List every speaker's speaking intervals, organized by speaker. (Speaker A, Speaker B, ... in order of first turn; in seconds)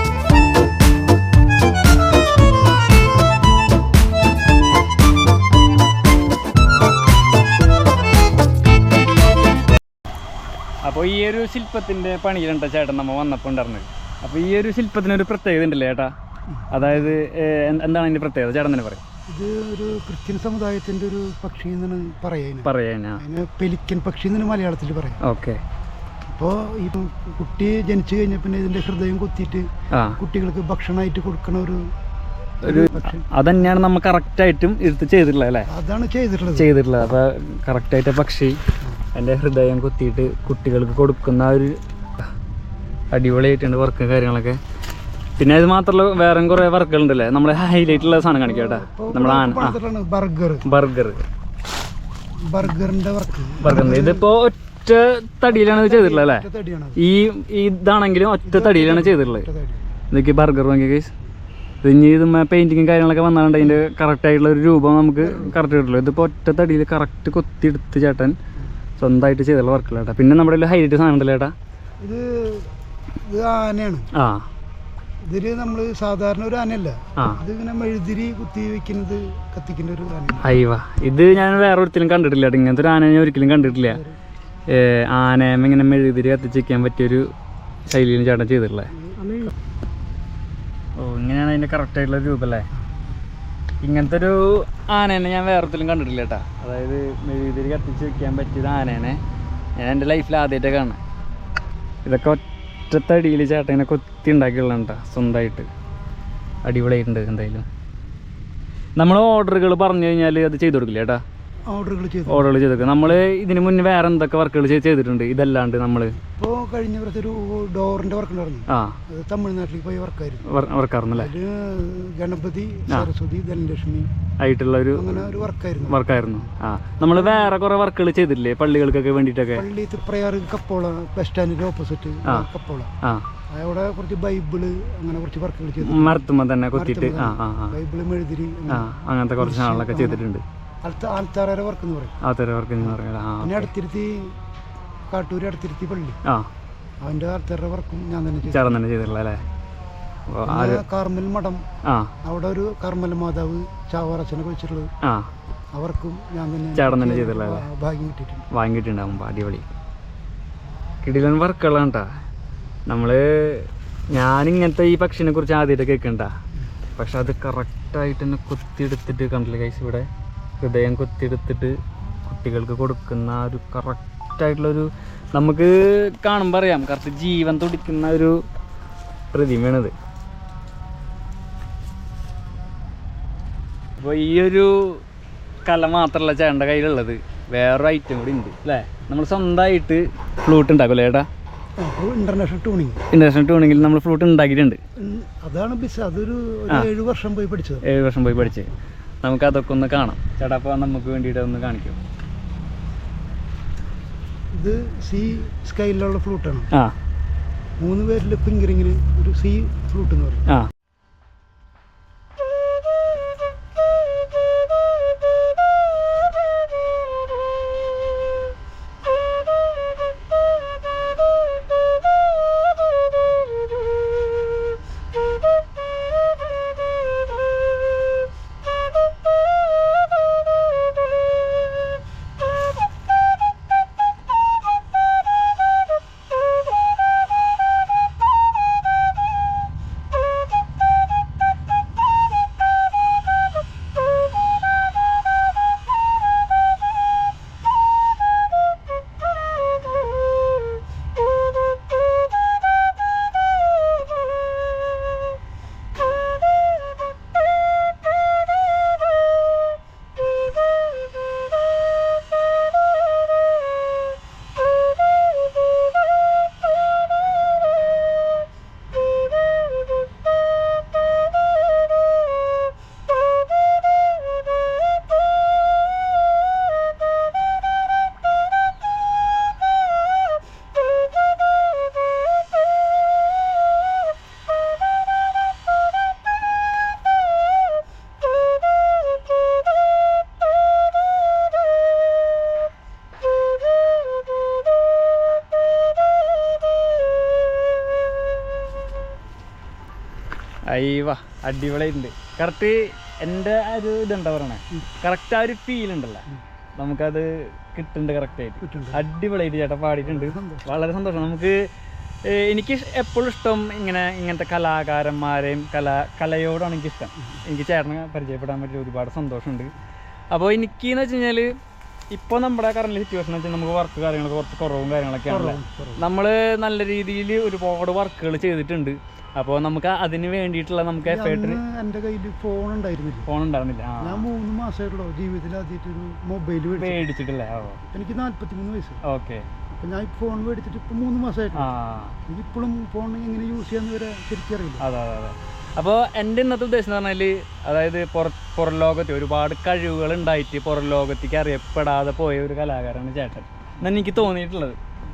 Speaker A: 10.8-16.1, 16.7-19.0, 22.6-23.2, 25.2-25.6, 29.9-30.2, 32.6-35.7, 36.5-38.6, 39.1-41.8, 43.1-44.6, 45.4-49.8, 50.6-51.3, 53.6-56.5, 57.0-59.5, 60.1-61.1, 61.8-68.3, 69.0-71.5, 74.1-74.5, 80.4-84.0, 84.7-87.3, 87.9-88.9, 91.0-92.7, 93.8-99.2, 99.8-101.0, 102.1-105.7, 106.6-107.7, 109.0-111.2, 112.3-116.2, 118.7-119.0, 120.5-121.3, 124.4-125.3, 125.9-129.7, 135.8-137.8, 138.7-140.4, 142.2-143.7, 148.5-149.4, 150.3-150.8, 151.8-152.1, 155.0-155.3, 156.8-157.7, 158.5-159.7, 161.0-162.1, 162.9-166.3, 167.0-170.1, 170.6-178.4, 179.3-179.9, 184.0-185.0, 185.7-191.3, 193.1-194.8, 197.8-198.7, 199.2-202.0, 300.7-306.3, 306.8-311.7, 312.2-319.7, 320.3-321.5, 322.1-331.6, 333.3-334.3, 336.7-337.8, 339.0-339.5, 341.6-342.2, 344.8-354.8
Speaker B: 16.5-17.1, 19.3-25.2, 26.3-31.8, 32.6-33.3, 35.7-36.7, 48.0-50.7, 52.5-54.3, 55.5-57.0, 58.5-59.8, 65.2-65.6, 72.0-72.7, 73.3-74.1, 75.3-80.6, 81.2-81.7, 83.6-84.2, 89.0-89.5, 111.7-112.5, 116.4-120.5, 121.2-124.1, 125.0-127.6, 129.6-132.9, 133.5-136.2, 136.7-138.9, 139.4-140.2, 140.8-142.2, 142.8-144.3, 145.1-146.2, 147.0-148.8, 150.5-151.6, 152.2-154.9, 155.7-158.4, 191.8-193.0, 195.0-197.9, 204.5-206.7, 207.8-210.6, 308.6-309.0, 310.0-310.7, 325.3-326.0, 331.0-333.3, 334.0-337.1, 337.8-339.0, 339.8-341.7, 342.3-344.8